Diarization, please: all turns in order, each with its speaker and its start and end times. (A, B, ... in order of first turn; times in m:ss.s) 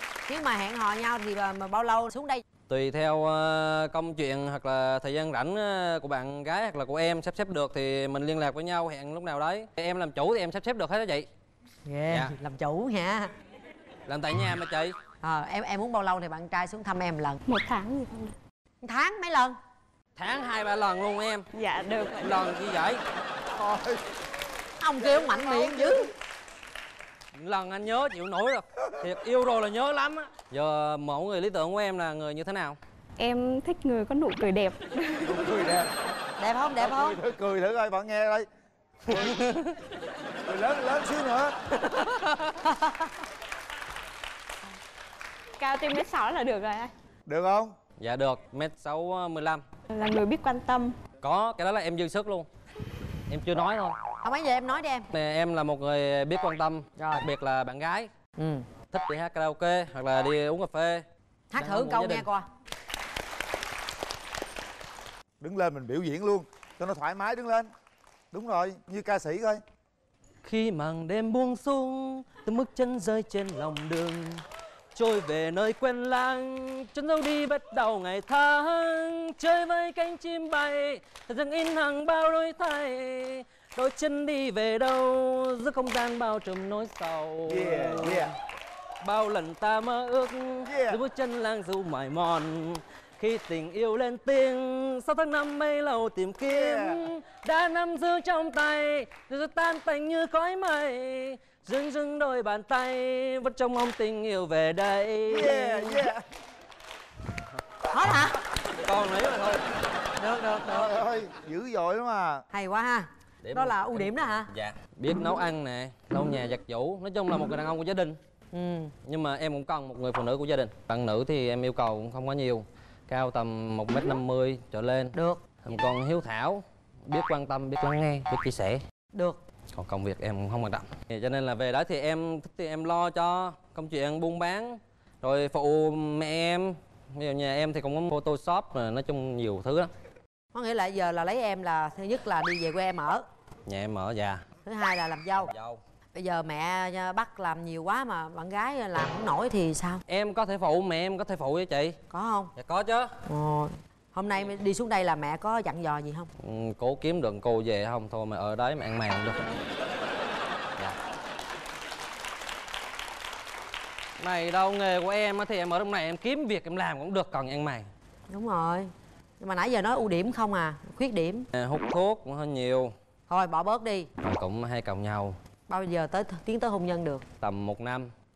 0:00.3-0:02.4 A
0:02.7-0:11.3 B
0:11.8-0:13.3 A
0:12.1-0:12.3 B
0:14.0-0:15.0 B
0:15.2-0:17.4 A
0:17.5-0:18.3 C
0:18.8-0:19.6 A
0:20.2-0:21.5 B
0:21.5-0:22.4 C
0:22.2-0:23.0 B
0:23.5-0:24.0 D
0:24.8-0:26.1 A
0:25.0-0:26.0 D
0:27.3-0:32.8 B
0:33.2-0:35.4 C
0:35.2-0:35.9 D
0:36.4-0:37.2 A
0:36.8-0:38.5 D
0:39.1-0:39.4 D
0:39.2-0:39.7 B
0:40.4-0:41.6 D
0:42.6-0:43.1 A
0:45.6-0:46.9 C
0:47.2-0:47.8 D
0:48.0-0:49.6 B
0:49.9-0:50.9 C
0:51.2-0:52.5 B
0:53.3-0:54.0 B
0:54.2-0:55.1 A
0:55.1-0:58.1 B
0:57.0-0:57.3 A
0:58.4-0:58.6 A
0:58.9-1:01.0 B
1:01.5-1:02.4 A
1:01.6-1:02.3 B
1:05.4-1:07.7 D
1:08.3-1:09.6 D
1:10.4-1:28.3 B
1:27.4-1:28.3 D
1:29.0-1:46.0 B
1:30.6-1:31.0 D
1:36.4-1:37.1 D
1:45.3-1:46.2 D
1:47.9-1:48.4 A
1:48.7-1:49.6 B
1:50.2-1:51.0 A
1:50.7-1:52.4 D
1:52.5-1:54.5 A
1:53.4-1:58.2 B
1:58.5-1:58.9 A
1:59.0-2:08.8 B
2:05.1-2:05.4 A
2:09.1-2:09.4 A
2:09.7-2:19.9 B
2:20.5-2:23.2 A
2:23.6-2:24.4 B
2:24.6-2:25.5 A
2:25.4-2:25.8 B
2:26.1-2:30.0 A
2:30.1-2:32.0 B
2:32.1-2:32.5 A
2:32.6-2:33.1 B
2:33.3-2:36.3 A
2:36.4-2:39.6 B
2:44.2-2:47.9 B
2:48.3-2:51.5 A
2:51.5-2:52.9 B
2:53.3-2:54.1 A
2:54.2-2:55.4 B
2:55.7-2:57.2 A
2:57.4-2:58.1 B